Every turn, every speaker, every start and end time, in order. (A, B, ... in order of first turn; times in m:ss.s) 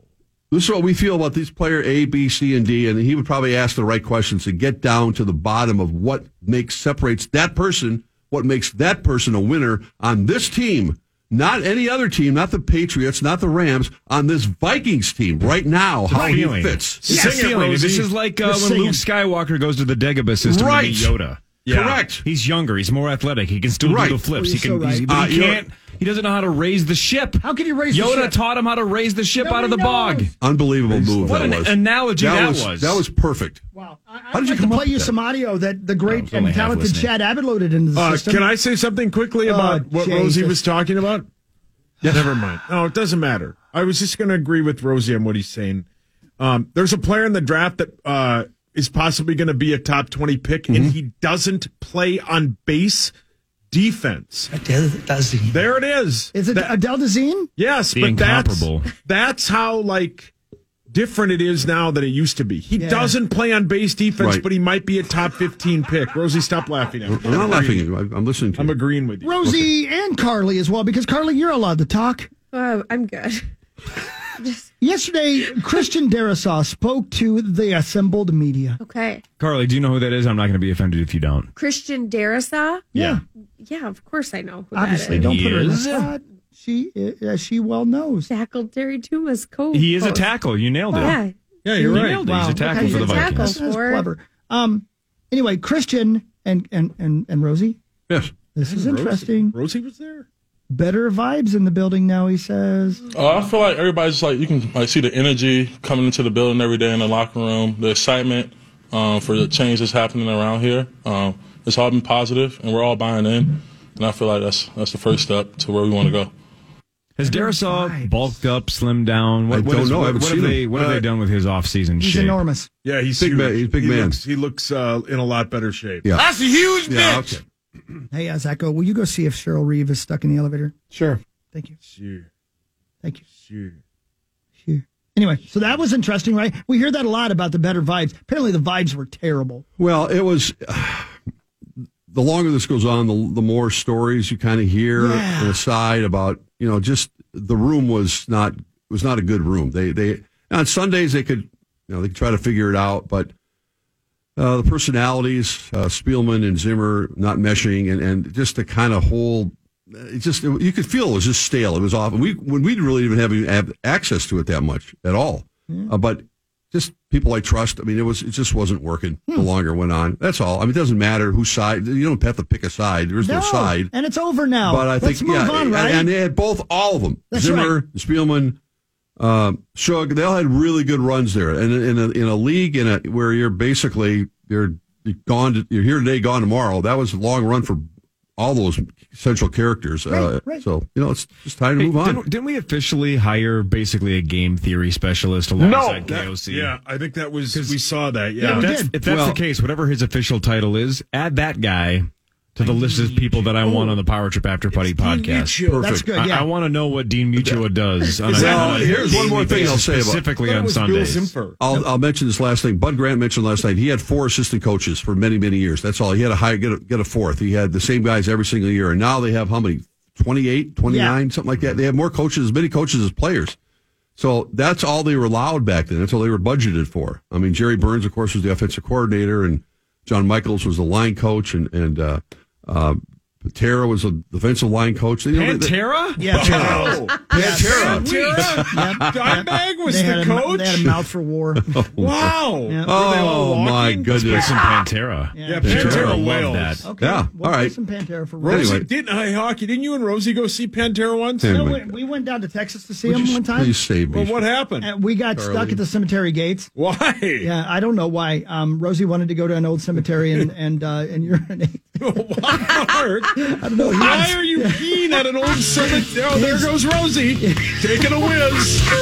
0:00.5-0:17.0 A
0:16.1-0:16.5 B
0:16.2-0:21.4 C
0:17.0-0:18.1 D
0:17.1-0:17.5 B
0:18.4-0:19.0 B
0:21.6-0:22.2 D
0:21.7-0:22.2 A
0:22.2-0:30.3 C
0:23.8-0:24.2 A
0:24.3-0:25.1 B
0:25.1-0:25.6 A
0:27.4-0:28.4 B
0:29.4-0:30.3 B
0:30.4-0:33.6 A
0:30.9-0:33.0 C
0:33.7-0:38.5 B
0:34.3-0:35.1 A
0:36.0-0:37.1 C
0:38.0-0:41.3 D
0:39.4-0:40.6 B
0:42.0-0:45.9 D
0:46.4-0:53.1 D
0:50.7-0:51.0 A
0:53.7-0:54.5 D
0:55.5-0:56.7 D
0:56.3-0:57.5 B
0:57.6-1:00.3 D
0:57.9-0:59.0 C
1:00.9-1:07.9 D
1:02.8-1:03.2 B
1:04.2-1:04.4 A
1:07.1-1:08.8 A
1:08.6-1:09.6 D
1:09.2-1:12.3 B
1:12.5-1:13.4 E
1:14.4-1:14.7 E
1:14.8-1:18.8 B
1:18.8-1:19.2 E
1:19.4-1:21.5 C
1:21.6-1:22.9 E
1:22.9-1:23.2 B
1:23.0-1:23.2 C
1:23.6-1:25.3 E
1:24.7-1:28.3 B
1:25.1-1:26.1 C
1:28.3-1:30.3 E
1:29.7-1:31.2 C
1:30.9-1:31.3 E
1:31.6-1:32.2 D
1:31.8-1:37.8 B
1:31.8-1:33.6 C
1:32.7-1:34.1 E
1:38.5-1:39.6 B
1:38.6-1:40.3 D
1:40.7-1:43.0 B
1:43.1-1:56.3 F
1:57.2-2:02.4 C
1:57.2-1:58.3 B
1:59.5-2:01.1 A
2:02.0-2:02.7 B
2:02.8-2:07.4 D
2:03.2-2:04.2 A
2:06.9-2:07.4 A
2:08.1-2:10.8 B
2:10.9-2:11.2 D
2:11.8-2:12.3 D
2:13.3-2:13.8 D
2:14.6-2:19.6 B
2:19.8-2:21.1 A
2:22.1-2:33.3 A
2:25.0-2:25.6 B
2:34.4-2:53.9 A
2:53.2-2:56.1 B
2:54.6-2:58.6 A
2:57.3-2:57.8 B
2:59.2-3:12.2 A
3:10.1-3:10.6 B
3:11.8-3:16.8 C
3:15.6-3:18.8 D
3:17.5-3:17.8 C
3:18.4-3:18.9 B
3:18.5-3:25.6 C
3:19.1-3:19.4 A
3:23.2-3:24.0 D
3:24.7-3:26.0 D
3:25.7-3:26.1 A
3:25.8-3:26.5 B
3:26.2-3:31.3 C
3:28.2-3:31.6 D
3:28.3-3:30.3 A
3:31.6-3:43.6 A
3:40.9-3:41.2 B
3:44.2-3:55.8 A
3:55.3-3:56.7 C
3:56.2-4:01.8 B
3:56.3-4:01.0 D
3:56.4-3:59.5 A
3:57.5-3:58.4 C
4:01.7-4:02.3 A
4:02.0-4:04.8 D
4:02.6-4:03.0 B
4:02.9-4:04.6 A
4:04.2-4:06.8 C
4:05.3-4:06.0 B
4:05.4-4:06.8 D
4:05.6-4:06.2 A
4:06.8-4:08.8 B
4:07.0-4:07.8 A
4:08.4-4:11.8 D
4:08.5-4:08.9 A
4:11.4-4:11.8 A
4:11.5-4:13.8 B
4:13.1-4:14.4 A
4:14.1-4:14.9 D
4:14.8-4:16.7 B
4:15.3-4:15.8 A
4:16.8-4:17.5 D
4:17.4-4:22.0 B
4:22.0-4:28.9 D
4:23.4-4:25.0 B
4:25.8-4:26.7 B
4:27.4-4:28.3 B